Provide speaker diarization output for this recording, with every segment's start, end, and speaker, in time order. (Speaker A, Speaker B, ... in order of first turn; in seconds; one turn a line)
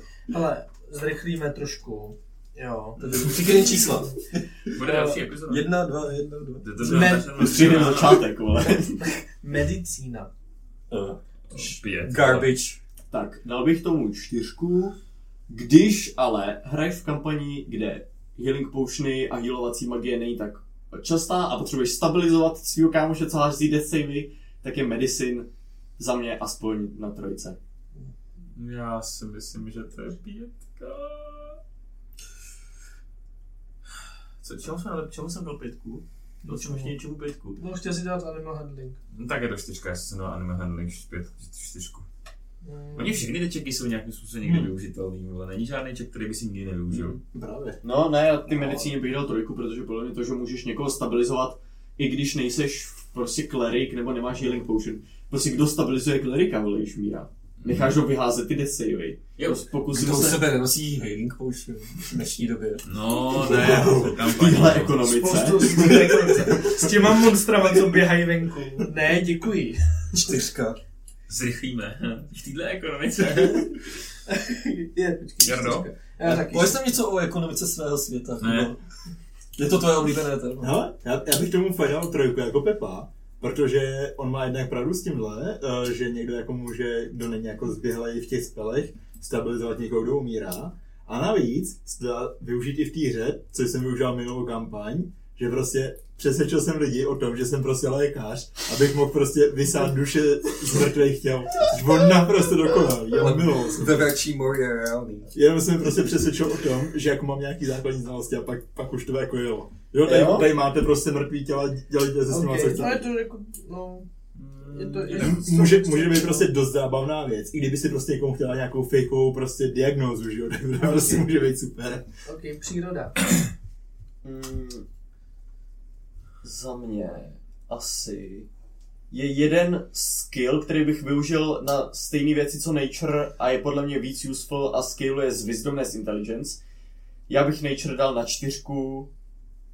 Speaker A: 0.3-4.1
Speaker B: 3.0-8.2
Speaker C: 4.7-5.7
Speaker C: 6.6-8.2
Speaker A: 6.8-7.5
Speaker D: 7.3-9.1
Speaker A: 9.0-10.3
Speaker B: 10.9-12.8
Speaker C: 11.5-12.5
Speaker D: 13.1-14.9
Speaker D: 15.5-27.6
Speaker C: 28.6-31.6
Speaker C: 34.4-37.6
Speaker A: 36.5-36.9
Speaker A: 37.6-39.0
Speaker C: 39.1-42.1
Speaker A: 42.6-43.2
Speaker C: 43.0-47.2
Speaker E: 44.4-44.7
Speaker E: 46.9-47.8
Speaker D: 47.8-60.5
Speaker C: 57.6-58.0
Speaker C: 59.4-59.6
Speaker B: 59.9-62.9
Speaker C: 62.9-65.2
Speaker E: 63.4-64.2
Speaker D: 63.5-66.5
Speaker A: 65.0-69.8
Speaker B: 70.1-70.8
Speaker C: 71.3-73.8
Speaker A: 74.3-76.8
Speaker C: 75.4-75.9
Speaker B: 76.2-78.8
Speaker C: 78.4-78.7
Speaker B: 79.6-80.8
Speaker E: 80.6-104.1
Speaker B: 103.2-105.3
Speaker E: 105.3-113.1
Speaker D: 110.0-110.5
Speaker A: 112.3-114.1
Speaker C: 114.3-115.4
Speaker A: 114.6-116.5
Speaker E: 115.2-122.0
Speaker A: 120.8-121.3
Speaker A: 122.2-123.2
Speaker D: 124.2-124.8
Speaker D: 126.4-128.5
Speaker D: 129.1-136.6
Speaker D: 137.3-139.1